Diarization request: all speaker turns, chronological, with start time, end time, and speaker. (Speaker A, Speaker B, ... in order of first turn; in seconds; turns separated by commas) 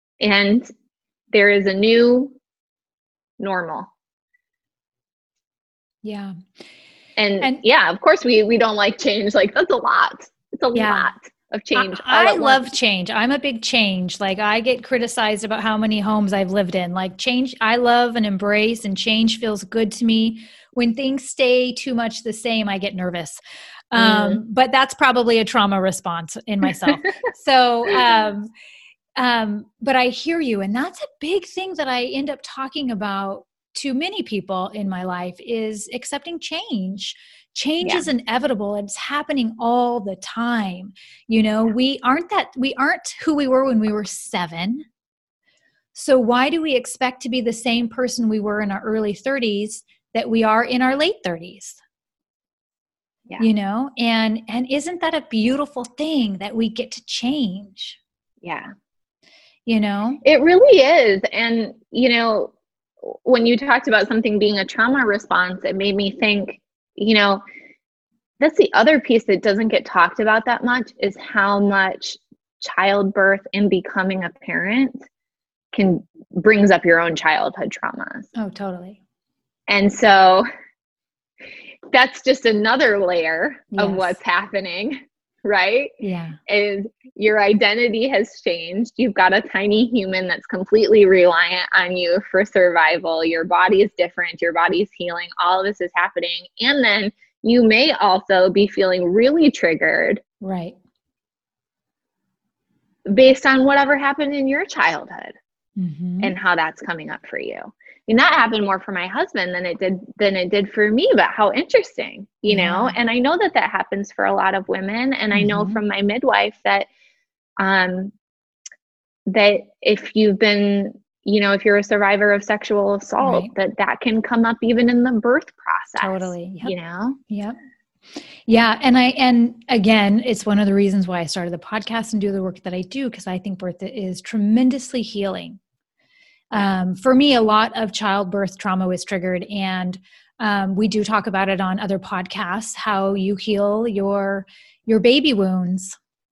Speaker A: 0.2-0.7, Speaker A: 1.3-2.4, Speaker A: 3.4-3.9, Speaker B: 6.0-6.4, Speaker A: 7.2-12.7, Speaker B: 10.7-11.1, Speaker B: 11.8-23.4, Speaker B: 23.9-28.5, Speaker A: 24.0-24.4, Speaker B: 29.2-44.9, Speaker A: 37.8-38.1, Speaker B: 46.0-51.8, Speaker B: 53.4-58.0, Speaker A: 58.4-58.7, Speaker B: 59.7-60.2, Speaker A: 60.2-62.5, Speaker A: 63.0-67.4, Speaker A: 68.4-75.0, Speaker A: 75.7-78.3, Speaker B: 78.4-79.0, Speaker A: 79.7-80.5, Speaker A: 81.9-85.9, Speaker B: 83.8-84.2, Speaker B: 86.0-86.4, Speaker A: 86.5-100.2, Speaker B: 100.4-100.8, Speaker A: 103.1-105.3, Speaker B: 105.8-106.3, Speaker A: 106.2-116.9, Speaker B: 112.5-113.0, Speaker B: 115.3-115.8, Speaker A: 117.6-118.1, Speaker A: 119.3-127.2, Speaker B: 123.2-123.5, Speaker B: 126.0-126.7, Speaker B: 127.3-127.6, Speaker B: 128.5-135.6, Speaker B: 136.5-146.0